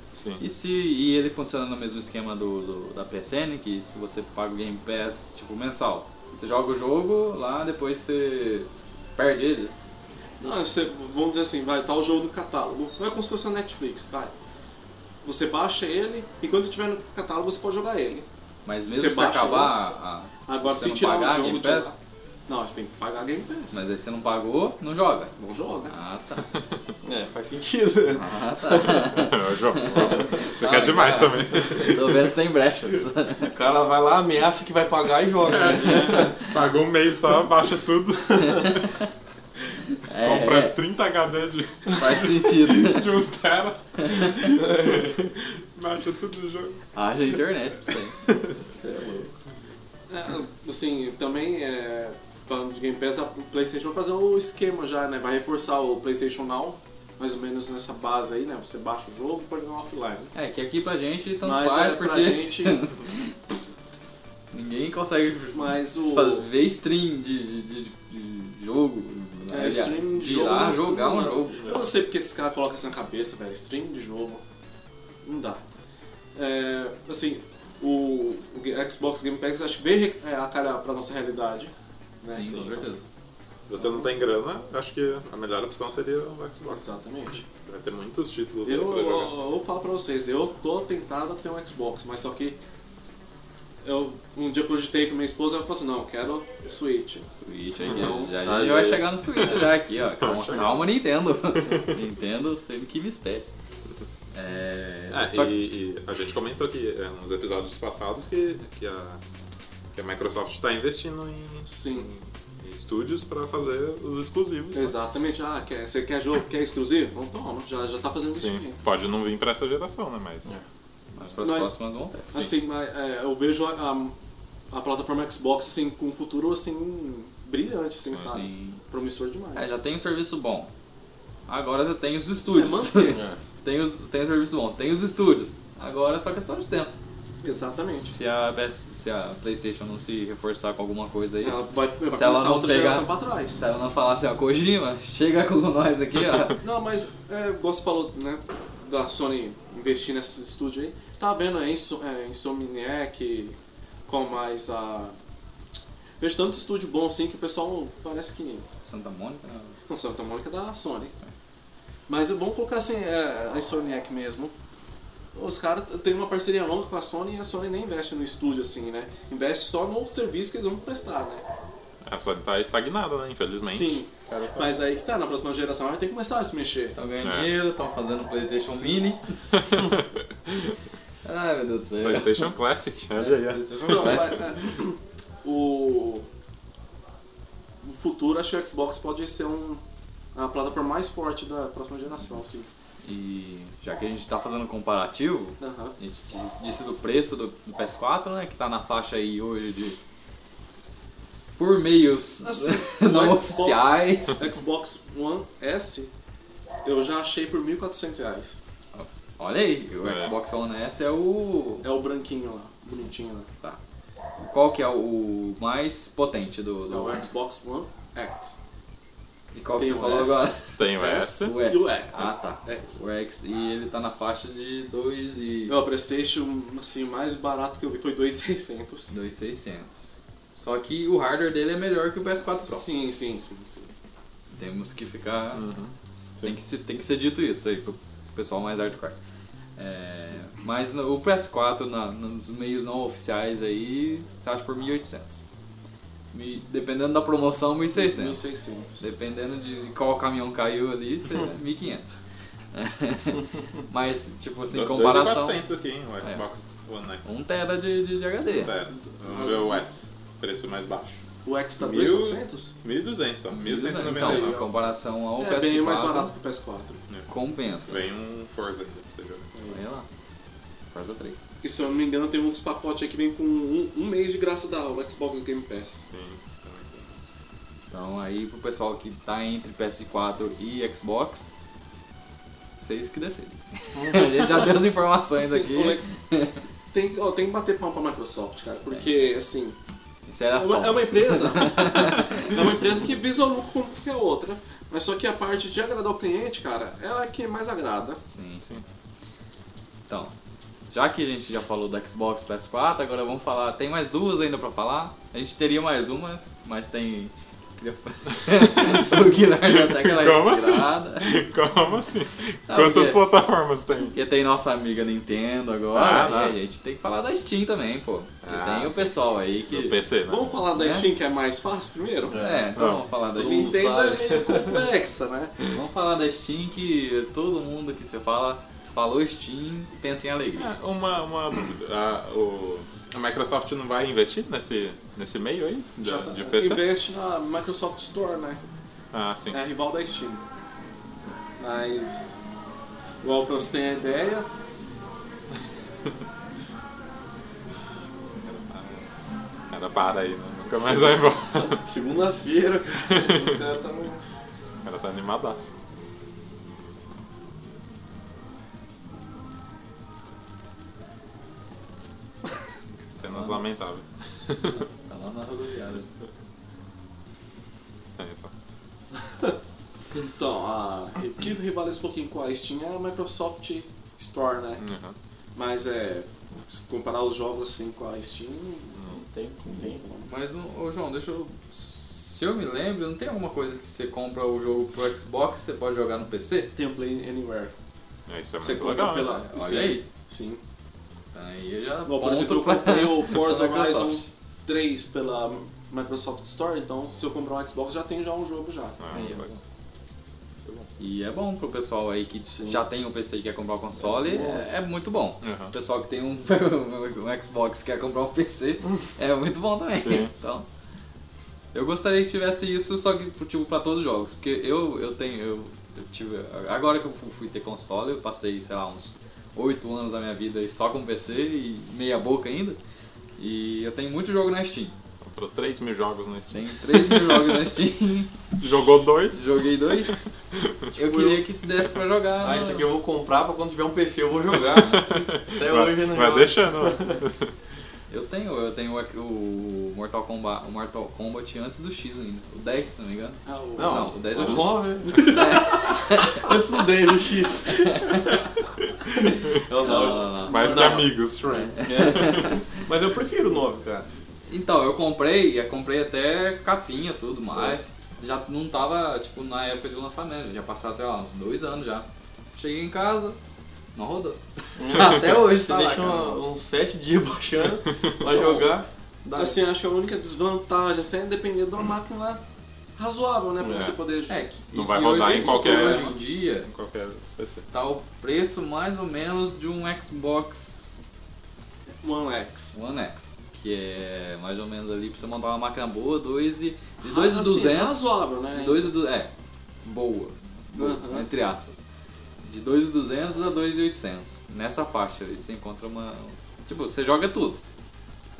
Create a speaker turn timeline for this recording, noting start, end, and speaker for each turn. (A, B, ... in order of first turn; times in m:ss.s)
0:00.2-0:00.4 A
0:00.4-0:09.7 B
0:10.4-0:14.3 C
0:15.2-0:18.2 C
0:18.6-0:22.0 B
0:18.9-0:19.8 C
0:20.5-0:22.0 C
0:22.5-0:23.8 C
0:23.7-0:25.3 B
0:25.4-0:25.9 C
0:25.9-0:26.5 B
0:27.0-0:29.1 D
0:28.1-0:33.5 B
0:28.9-0:32.3 A
0:33.4-0:36.3 D
0:35.4-0:39.0 A
0:35.9-0:36.3 B
0:38.4-0:39.1 B
0:39.9-0:46.8 A
0:39.9-0:40.8 B
0:41.9-0:43.1 B
0:44.0-0:44.5 B
0:44.5-0:45.3 D
0:46.9-0:48.2 B
0:48.5-0:49.3 D
0:50.1-1:00.3 C
1:00.3-1:03.3 B
1:01.4-1:02.8 C
1:04.5-1:11.7 B
1:05.5-1:06.4 C
1:09.5-1:14.4 C
1:15.2-1:15.6 C
1:16.3-1:22.8 C
1:22.3-1:23.0 B
1:23.7-1:26.9 A
1:23.8-1:24.1 C
1:26.6-1:27.4 C
1:27.6-1:29.3 A
1:28.6-1:32.6 C
1:33.8-1:37.2 C
1:37.3-1:43.4 B
1:37.8-1:39.7 A
1:37.8-1:39.0 D
1:40.2-1:40.8 A
1:44.3-1:45.6 B
1:45.1-1:49.2 A
1:49.9-1:55.0 A
1:51.6-1:52.1 C
1:54.7-1:58.8 C
1:58.3-2:00.5 A
2:01.1-2:02.3 B
2:01.4-2:01.8 C
2:02.3-2:04.1 C
2:04.7-2:09.7 C
2:08.2-2:08.8 B
2:09.5-2:10.7 B
2:11.5-2:16.9 B
2:12.5-2:13.2 C
2:13.1-2:13.4 D
2:17.4-2:18.1 C
2:18.0-2:26.6 B
2:21.4-2:23.6 C
2:26.6-2:35.1 C
2:36.2-2:38.7 C
2:38.8-2:39.8 B
2:39.9-2:41.1 C
2:42.1-2:44.5 C
2:45.3-2:51.4 C
2:52.0-2:54.8 A
2:53.6-2:57.0 C
2:57.0-2:59.2 B
2:57.2-2:57.5 A
2:59.5-3:00.7 A
3:01.2-3:02.5 B
3:02.0-3:04.3 A
3:03.2-3:04.5 B
3:03.9-3:06.2 C
3:07.8-3:09.8 C
3:10.3-3:12.7 C
3:13.0-3:20.0 B
3:15.6-3:16.0 C
3:21.6-3:24.4 B
3:22.4-3:26.1 C
3:26.8-3:28.6 C
3:28.9-3:31.8 B
3:30.0-3:30.3 A
3:31.8-3:33.5 C
3:34.4-3:37.2 B
3:36.9-3:38.6 C
3:39.5-3:40.8 B
3:39.8-3:43.0 C
3:40.8-3:41.6 A
3:41.4-3:45.7 B
3:45.7-3:49.1 C
3:49.1-3:52.8 B
3:52.6-3:53.9 C
3:54.5-3:59.2 B
3:55.5-3:56.5 A
3:59.8-4:05.5 B
4:06.3-4:08.5 B
4:08.0-4:09.1 C
4:09.0-4:12.2 B
4:12.7-4:15.6 B
4:14.7-4:17.3 A
4:17.2-4:18.7 B
4:18.5-4:21.2 A
4:19.2-4:19.8 C
4:21.4-4:22.7 C
4:21.8-4:24.7 A
4:23.5-4:26.3 B
4:24.2-4:24.6 C
4:25.4-4:27.0 C
4:27.3-4:28.0 B
4:27.9-4:29.5 A
4:29.7-4:30.0 B
4:30.9-4:31.4 B
4:31.6-4:36.0 C
4:36.0-4:37.1 A
4:37.9-4:41.5 B
4:42.8-4:46.6 B
4:44.0-4:44.4 D
4:45.4-4:46.0 C
4:46.9-4:49.8 C
4:48.9-4:49.1 B
4:50.3-4:52.6 B
4:50.6-4:58.2 C
4:58.3-4:58.8 B
5:00.1-5:00.3 B
5:00.9-5:11.4 B
5:08.8-5:09.1 A
5:09.7-5:14.1 A
5:12.7-5:13.2 B
5:14.1-5:20.0 B
5:15.9-5:16.6 A
5:18.4-5:20.6 A
5:20.3-5:22.4 C
5:20.7-5:21.1 B
5:22.3-5:24.8 D
5:22.4-5:23.8 B
5:22.8-5:23.0 A
5:23.3-5:25.6 C
5:25.7-5:30.7 B
5:30.6-5:36.8 A
5:36.0-5:38.6 C
5:39.1-5:39.6 A
5:39.5-5:40.4 C
5:41.6-5:42.4 C
5:43.2-5:44.4 C
5:48.4-5:49.1 A
5:49.7-5:51.8 A
5:51.6-5:54.2 D
5:53.1-5:53.6 A
5:54.8-5:55.7 A
6:03.1-6:04.8 A
6:03.3-6:03.6 B
6:04.7-6:06.1 B
6:08.2-6:08.5 A
6:10.3-6:14.8 C
6:14.8-6:15.2 A
6:15.5-6:19.0 C
6:19.0-6:19.2 A
6:19.1-6:20.0 D
6:19.8-6:20.3 C
6:20.2-6:26.7 B
6:26.7-6:27.7 C
6:28.3-6:29.4 A
6:28.6-6:30.6 C
6:29.3-6:30.0 B
6:31.3-6:34.3 B
6:32.0-6:39.0 C
6:39.0-6:39.5 A
6:39.1-6:39.4 D
6:39.1-6:39.6 B
6:41.0-6:50.6 B
6:44.0-6:44.7 D
6:45.4-6:45.7 A
6:49.9-6:50.3 A
6:51.7-7:02.8 B
7:03.4-7:04.9 B
7:05.2-7:07.6 A
7:06.5-7:08.4 B
7:08.6-7:10.8 A
7:09.3-7:10.3 B
7:10.9-7:12.9 B
7:11.0-7:11.4 D
7:12.4-7:17.2 D
7:14.7-7:17.5 A
7:18.1-7:26.8 B
7:23.4-7:24.2 C
7:23.8-7:28.4 D
7:24.4-7:24.6 A
7:27.7-7:28.4 B
7:29.1-7:29.6 A
7:29.5-7:31.0 D
7:29.8-7:32.6 B
7:29.8-7:31.1 C
7:30.4-7:32.5 A
7:31.8-7:34.1 D
7:34.5-7:43.4 B
7:43.9-7:46.6 B
7:44.8-7:49.6 D
7:48.2-7:48.7 C
7:49.3-7:52.4 C
7:53.0-7:54.4 C
7:53.6-7:53.9 D
7:53.7-7:53.9 A
7:54.3-7:56.7 B
7:54.7-7:57.7 A
7:55.3-7:56.1 C
7:57.7-8:01.0 B
8:02.0-8:02.7 C
8:02.7-8:09.3 B
8:07.0-8:08.9 C
8:09.8-8:11.8 B
8:10.7-8:11.3 C
8:12.4-8:17.6 B